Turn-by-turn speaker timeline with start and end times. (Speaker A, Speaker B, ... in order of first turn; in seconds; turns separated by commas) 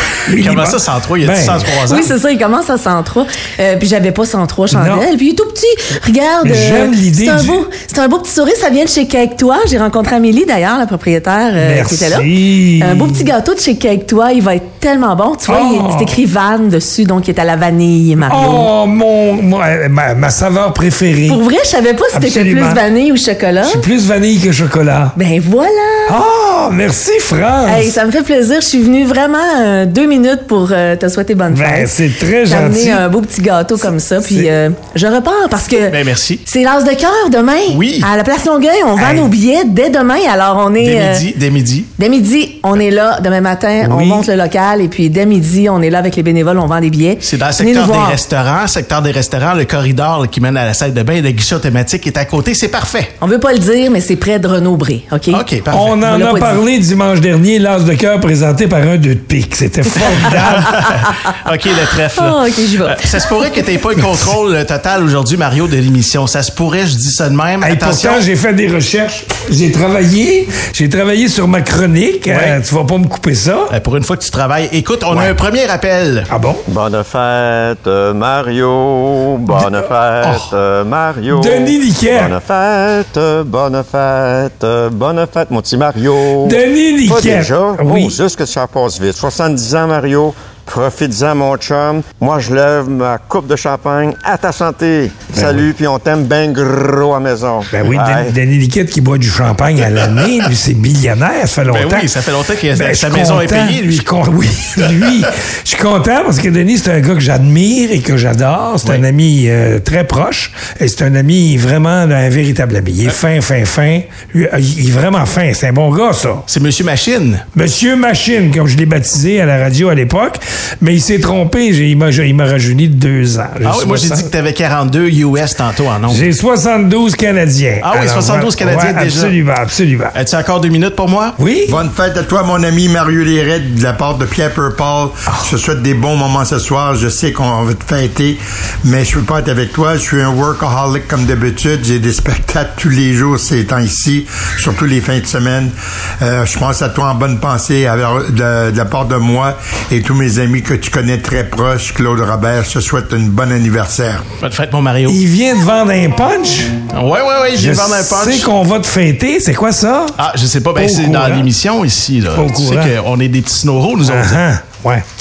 Speaker A: 0.3-1.7, Speaker B: 0.3-2.2, Speaker C: 1.9-18.7, Speaker A: 4.7-5.1, Speaker A: 6.4-7.6, Speaker A: 11.6-13.3, Speaker A: 15.5-16.2, Speaker A: 18.3-21.4, Speaker C: 21.3-23.8, Speaker A: 22.1-22.8, Speaker A: 23.6-25.1, Speaker C: 25.2-26.2, Speaker A: 26.1-27.9, Speaker C: 27.7-41.2, Speaker A: 31.5-33.1, Speaker B: 34.2-34.5, Speaker B: 35.9-36.4, Speaker B: 37.7-38.1, Speaker B: 39.0-39.3, Speaker B: 40.8-41.9, Speaker C: 42.0-48.2, Speaker A: 43.8-44.3, Speaker B: 47.2-53.1, Speaker C: 53.2-56.6, Speaker B: 55.3-56.0, Speaker A: 55.7-60.7, Speaker B: 59.9-68.3, Speaker C: 62.1-63.6, Speaker A: 67.6-73.7, Speaker B: 72.3-72.6, Speaker B: 73.7-76.3, Speaker A: 76.3-76.6, Speaker D: 76.7-98.4, Speaker A: 79.5-79.8, Speaker B: 80.2-80.5, Speaker A: 81.3-82.4, Speaker A: 86.4-88.2, Speaker A: 95.3-95.7, Speaker A: 97.7-102.1, Speaker B: 100.0-100.5, Speaker B: 101.7-104.1, Speaker A: 102.7-116.5, Speaker B: 104.8-105.2, Speaker B: 116.5-117.4, Speaker A: 117.5-124.3, Speaker B: 123.6-126.3, Speaker A: 126.1-130.2, Speaker B: 127.8-129.4, Speaker B: 130.1-131.4, Speaker A: 131.4-131.8, Speaker E: 131.7-154.3, Speaker B: 154.4-155.2, Speaker A: 155.1-156.8, Speaker B: 156.9-158.5, Speaker A: 157.6-160.2, Speaker B: 160.2-164.4, Speaker A: 160.8-161.5, Speaker A: 162.3-162.9, Speaker A: 164.0-165.0